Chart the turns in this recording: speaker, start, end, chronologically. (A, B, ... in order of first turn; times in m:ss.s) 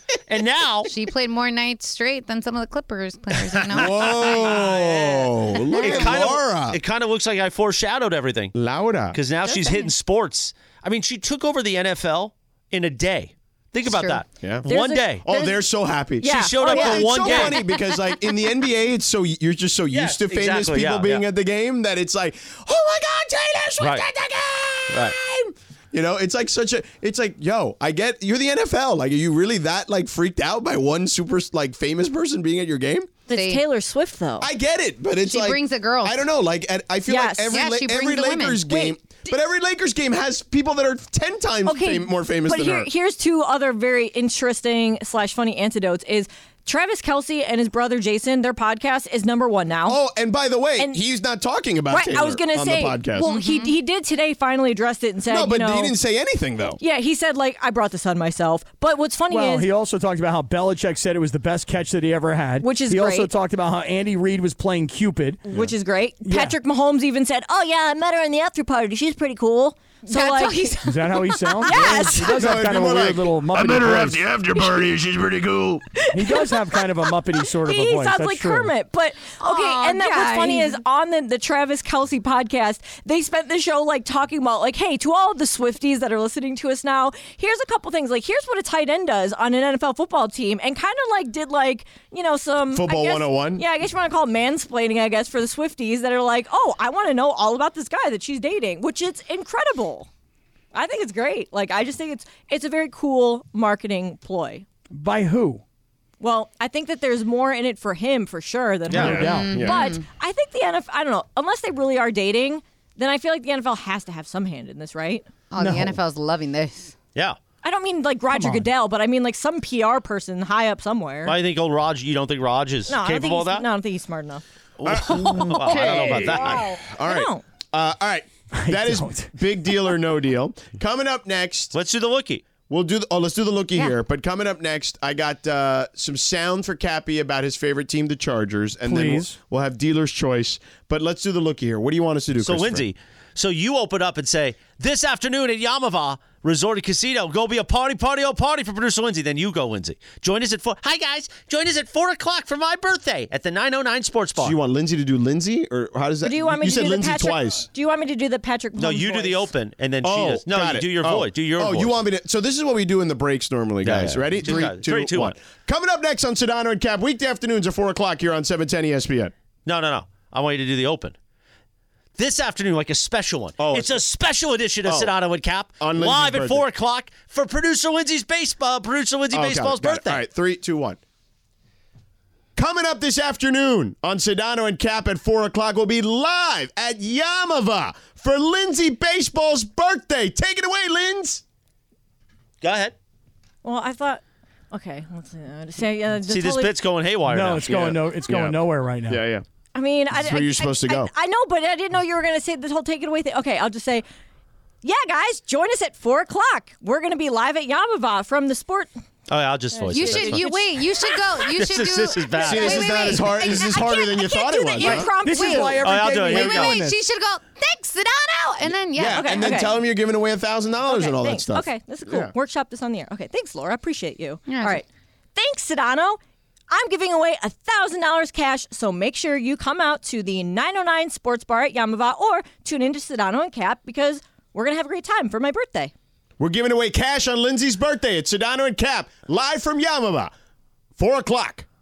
0:00.3-0:00.9 A
0:00.9-0:04.6 B
0:03.7-0:06.8 C
0:04.4-0:08.5 A
0:05.8-0:06.1 B
0:08.5-0:09.2 C
0:09.1-0:15.2 A
0:09.4-0:09.8 D
0:13.9-0:15.6 D
0:14.4-0:14.7 C
0:15.2-0:33.2 C
0:16.2-0:17.6 D
0:16.3-0:17.6 A
0:19.9-0:21.2 A
0:23.8-0:24.1 A
0:24.9-0:25.2 A
0:33.3-0:34.5 D
0:33.3-0:33.6 B
0:34.4-0:42.9 C
0:35.2-0:36.3 B
0:37.0-0:37.6 D
0:37.5-0:38.8 B
0:41.6-0:50.0 D
0:49.8-0:53.3 C
0:51.9-0:55.9 D
0:53.2-0:53.7 B
0:55.3-0:56.8 C
0:56.8-0:59.7 D
0:59.3-1:05.4 E
1:02.6-1:03.3 D
1:05.4-1:10.8 D
1:06.2-1:06.5 E
1:10.1-1:12.3 B
1:10.8-1:14.3 E
1:11.6-1:12.4 D
1:11.8-1:15.9 C
1:16.0-1:16.6 D
1:16.1-1:18.7 E
1:17.6-1:40.1 D
1:19.4-1:20.8 B
1:32.7-1:33.6 C
1:40.7-1:44.6 D
1:44.9-1:45.6 E
1:46.2-1:55.2 D
1:48.9-1:49.5 E
1:48.9-1:50.0 B
1:48.9-1:49.8 C
1:55.5-1:56.9 B
1:55.6-1:56.0 E
1:57.6-2:01.4 D
1:58.3-1:58.6 E
2:01.2-2:03.6 A
2:02.9-2:07.4 D
2:04.8-2:06.7 A
2:04.8-2:11.7 C
2:08.5-2:09.4 E
2:11.7-2:12.4 A
2:12.6-2:22.9 C
2:18.8-2:19.3 E
2:22.4-2:34.6 A
2:34.4-2:37.6 C
2:36.2-2:39.5 D
2:38.8-2:41.9 A
2:40.0-2:49.3 C
2:43.8-2:45.4 A
2:49.6-2:51.1 A
2:52.2-3:00.2 A
2:53.6-2:54.0 C
2:54.8-2:55.1 C
2:55.8-2:56.6 C
2:59.3-3:01.0 C
3:02.6-3:11.4 C
3:12.6-3:12.9 A
3:13.6-3:16.7 D
3:16.2-3:17.8 A
3:17.3-3:19.2 E
3:17.6-3:19.4 C
3:19.7-3:24.0 D
3:20.1-3:21.1 C
3:24.8-3:28.9 D
3:29.3-3:30.5 A
3:29.7-3:30.8 D
3:29.9-3:39.7 B
3:31.4-3:33.2 A
3:32.4-3:35.1 C
3:32.4-3:35.8 D
3:34.8-3:37.0 E
3:35.8-3:36.8 A
3:38.9-3:42.3 C
3:39.0-3:39.7 D
3:40.8-3:46.2 D
3:44.5-3:44.8 B
3:46.7-3:55.9 D
3:56.4-4:00.3 C
4:01.0-4:01.6 C